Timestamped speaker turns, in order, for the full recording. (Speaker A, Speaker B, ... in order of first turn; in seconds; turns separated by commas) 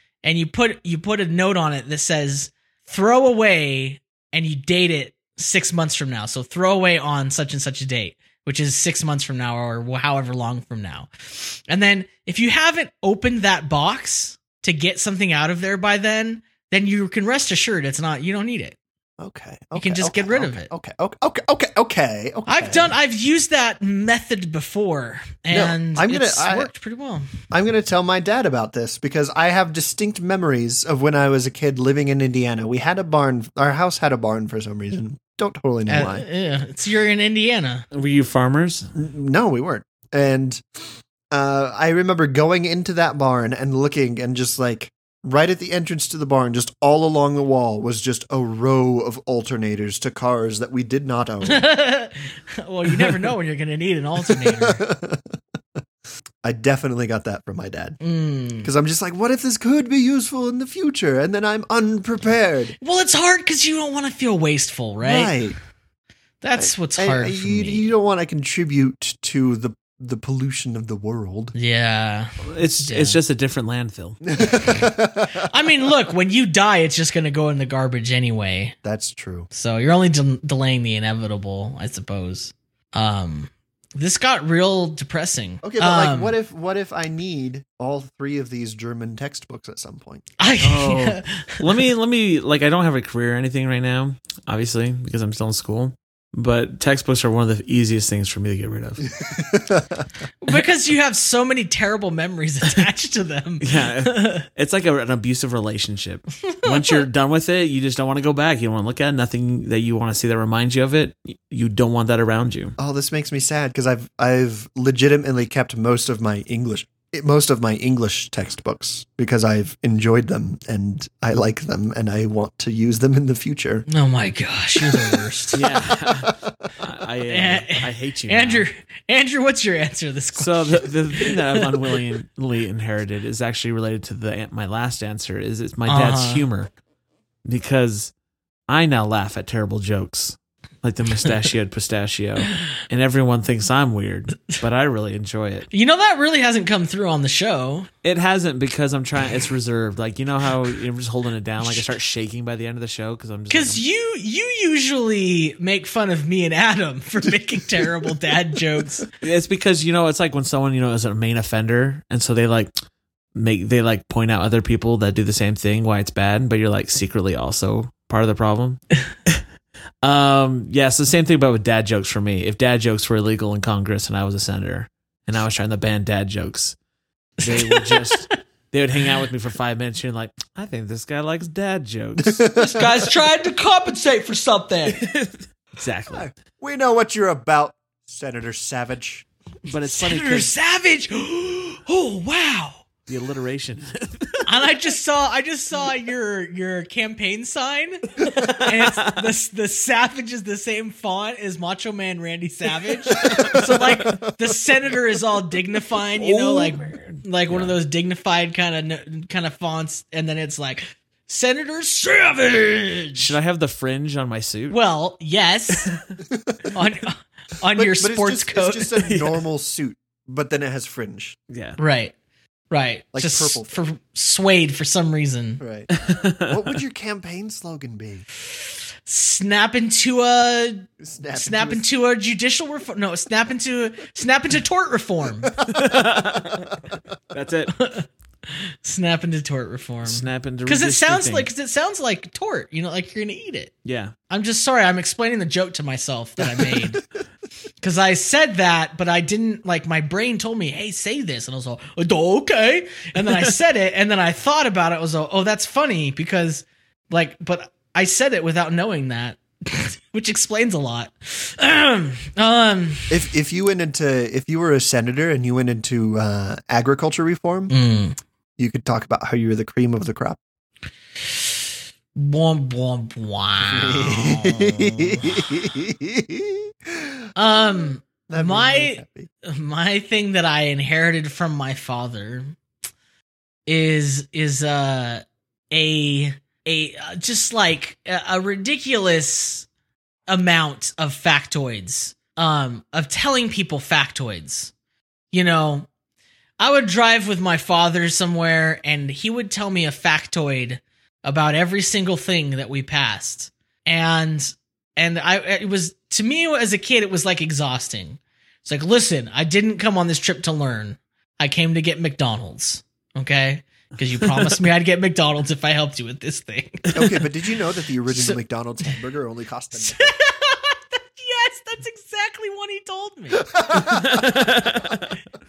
Speaker A: 0.2-18.8, Speaker B: 19.2-22.9, Speaker A: 19.8-20.7, Speaker A: 22.5-27.4, Speaker B: 25.5-26.7, Speaker B: 27.5-36.2, Speaker A: 35.9-37.9, Speaker C: 37.9-38.9, Speaker B: 38.9-51.6, Speaker A: 51.4-54.8, Speaker B: 54.2-55.4, Speaker B: 56.4-58.0, Speaker A: 58.0-58.7, Speaker B: 58.6-62.8, Speaker A: 62.8-65.4, Speaker B: 65.0-65.5, Speaker A: 66.4-67.9, Speaker B: 66.5-71.5, Speaker A: 71.5-73.2, Speaker C: 72.4-74.2, Speaker B: 74.3-75.9, Speaker A: 75.4-78.8, Speaker B: 78.8-79.5, Speaker A: 79.5-86.3, Speaker B: 85.6-90.2, Speaker A: 90.4-91.8, Speaker C: 90.6-99.1, Speaker B: 99.2-100.0, Speaker A: 100.4-104.5, Speaker C: 103.6-112.7, Speaker A: 106.5-107.0, Speaker B: 112.8-123.8, Speaker A: 123.9-125.7, Speaker B: 124.8-125.2, Speaker C: 125.5-128.7, Speaker B: 125.9-126.7, Speaker A: 127.3-132.0, Speaker C: 130.3-136.7, Speaker A: 135.9-136.4, Speaker C: 137.4-138.1, Speaker C: 138.7-145.7, Speaker A: 145.7-147.9, Speaker C: 148.0-153.8, Speaker A: 153.5-159.1, Speaker C: 159.2-162.7, Speaker C: 163.3-169.4, Speaker C: 170.0-176.8, Speaker C: 177.4-182.9, Speaker A: 177.4-178.3, Speaker B: 182.2-183.0, Speaker A: 182.5-185.0, Speaker C: 184.8-186.3, Speaker B: 186.1-189.2, Speaker C: 189.6-190.5, Speaker A: 189.8-192.8, Speaker C: 193.1-194.5, Speaker A: 194.4-213.3, Speaker C: 198.2-199.3, Speaker C: 203.2-203.9, Speaker B: 203.3-204.4, Speaker C: 206.2-207.8, Speaker C: 213.2-214.8, Speaker A: 214.7-215.9, Speaker C: 215.7-216.0, Speaker B: 216.2-216.7, Speaker A: 216.7-219.0, Speaker B: 217.7-221.4, Speaker C: 219.1-219.4, Speaker C: 221.5-221.8, Speaker A: 221.8-222.1, Speaker A: 222.7-225.6, Speaker B: 223.1-223.7, Speaker B: 225.6-225.9, Speaker C: 225.9-226.7, Speaker B: 226.4-228.2, Speaker A: 229.0-235.5, Speaker B: 231.0-231.8, Speaker B: 235.5-236.7, Speaker C: 235.7-237.7, Speaker A: 237.7-243.7, Speaker C: 240.0-241.5, Speaker C: 243.8-244.1, Speaker A: 244.3-247.0, Speaker B: 246.5-247.0, Speaker A: 247.8-263.3, Speaker C: 253.2-253.5, Speaker B: 263.1-267.7, Speaker A: 267.7-268.2, Speaker B: 268.6-270.4, Speaker A: 272.1-275.5, Speaker B: 273.6-279.3, Speaker A: 277.4-282.6, Speaker A: 283.7-289.7, Speaker A: 290.3-294.7, Speaker A: 295.3-295.9, Speaker A: 296.6-317.0, Speaker C: 314.1-314.6, Speaker B: 316.9-320.1, Speaker A: 318.1-318.4, Speaker A: 319.7-323.8, Speaker B: 323.5-324.3, Speaker C: 323.7-325.1